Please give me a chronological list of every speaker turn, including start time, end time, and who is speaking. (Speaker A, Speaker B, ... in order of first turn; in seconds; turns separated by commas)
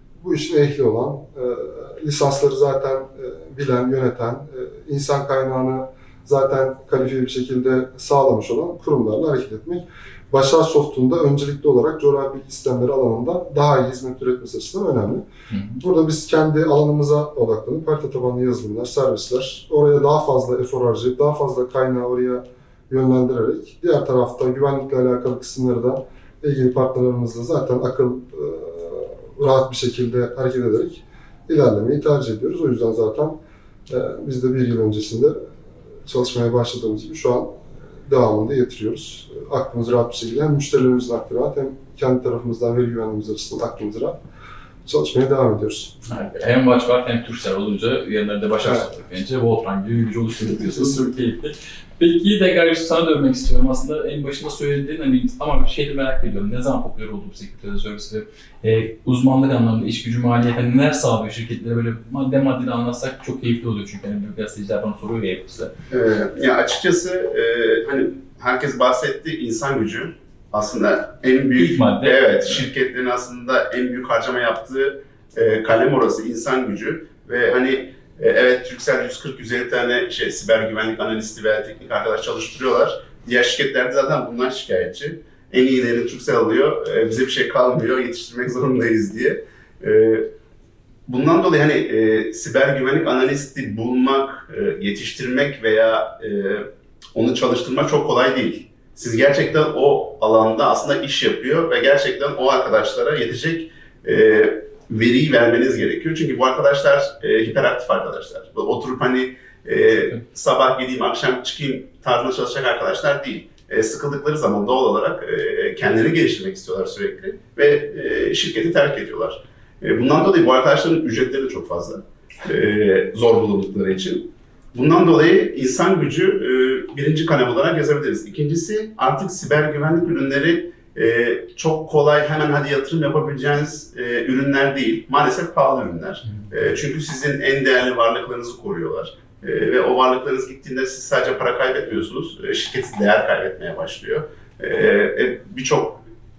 Speaker A: 0.2-15.2, Speaker B: 15.5-15.8, Speaker A: 15.8-33.4, Speaker A: 33.9-35.4, Speaker A: 36.1-44.2, Speaker A: 44.9-45.9, Speaker B: 46.1-65.7, Speaker C: 65.9-90.3, Speaker B: 71.6-72.6, Speaker C: 91.1-146.0